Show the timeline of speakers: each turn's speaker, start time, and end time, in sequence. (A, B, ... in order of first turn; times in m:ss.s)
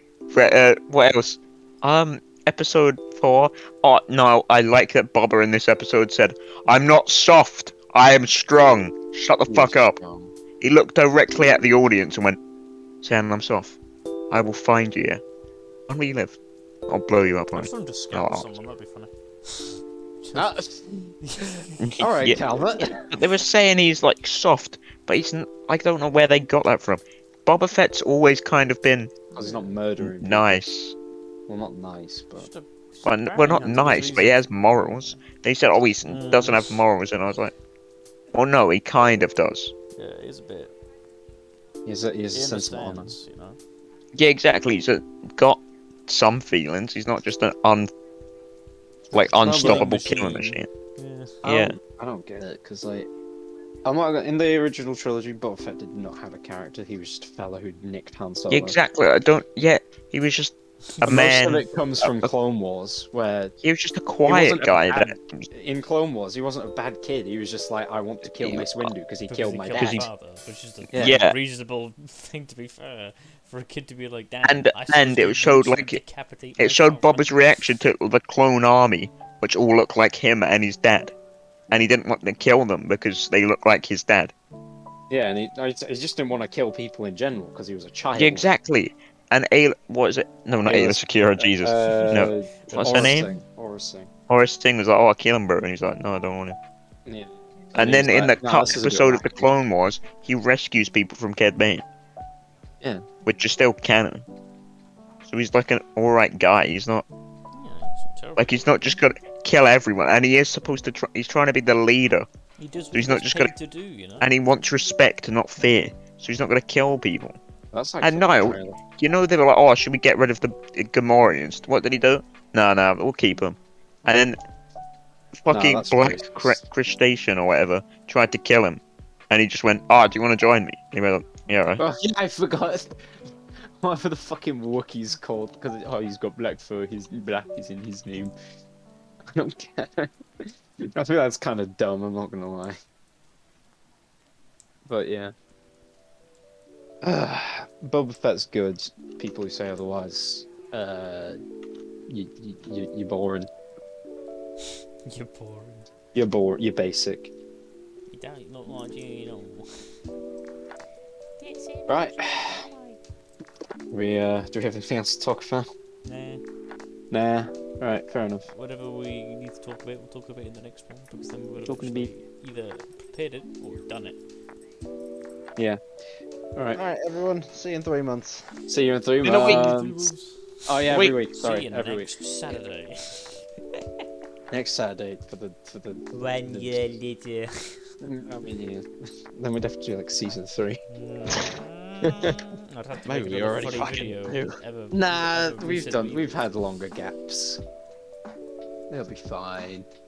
0:00.3-0:10.0 A
0:09.4-0:10.3 B
0:10.6-0:12.4 A
0:13.0-0:13.8 A
0:14.3-0:15.2 A
0:15.9-0:16.4 A
0:16.9-0:18.5 A
0:17.5-0:20.6 C
0:20.3-0:21.1 B
0:21.2-0:21.9 C
0:21.8-0:29.2 A
0:22.0-0:23.1 B
0:29.3-0:29.8 C
0:29.4-0:30.6 B
0:30.0-0:30.9 A
0:31.5-0:32.5 B
0:32.4-0:35.2 C
0:33.0-0:37.5 A
0:36.1-0:36.8 C
0:38.3-0:39.7 A
0:40.0-0:40.7 C
0:41.8-0:43.1 B
0:42.3-0:43.6 C
0:44.1-0:47.9 A
0:49.1-0:50.7 A
0:49.1-0:49.9 B
0:49.5-0:51.3 C
0:51.4-0:53.1 B
0:51.4-0:51.8 A
0:53.8-0:58.8 B
0:58.5-1:02.3 A
1:01.0-1:03.6 B
1:03.6-1:05.4 A
1:04.2-1:10.0 B
1:08.4-1:08.9 A
1:09.3-1:17.4 C
1:09.8-1:10.1 A
1:11.0-1:11.4 A
1:14.4-1:16.0 A
1:16.6-1:21.1 A
1:21.7-1:24.3 A
1:25.1-1:28.5 B
1:28.1-1:33.3 A
1:30.6-1:34.1 B
1:31.8-1:33.2 C
1:34.3-1:36.6 A
1:37.0-1:39.5 B
1:37.8-1:41.8 A
1:43.2-1:44.2 A
1:45.2-1:47.0 A
1:47.5-1:48.9 C
1:48.4-1:52.3 A
1:52.6-1:54.3 C
1:52.9-1:53.5 A
1:54.2-1:57.4 A
1:57.7-1:58.8 B
1:58.0-2:04.4 A
2:05.4-2:11.8 A
2:05.5-2:06.6 B
2:11.8-2:13.1 B
2:13.8-2:18.3 B
2:19.3-2:22.8 B
2:24.9-2:25.3 B
2:27.0-2:31.4 B
2:32.1-2:33.5 B
2:35.0-2:35.9 C
2:36.1-2:37.3 B
2:38.1-2:39.6 C
2:41.4-2:43.0 C
2:41.9-2:42.6 B
2:43.9-2:45.7 B
2:46.0-2:46.4 C
2:47.1-2:48.5 B
2:48.5-2:54.2 C
2:51.6-2:52.1 B
2:56.8-2:58.5 D
2:58.7-3:00.1 B
2:59.2-2:59.7 D
2:59.2-3:03.5 C
3:00.6-3:02.1 B
3:00.9-3:01.2 D
3:04.5-3:06.9 B
3:06.1-3:07.8 C
3:08.0-3:10.8 B
3:10.9-3:16.4 C
3:13.0-3:14.4 D
3:13.5-3:14.0 B
3:14.9-3:17.6 B
3:18.9-3:19.9 B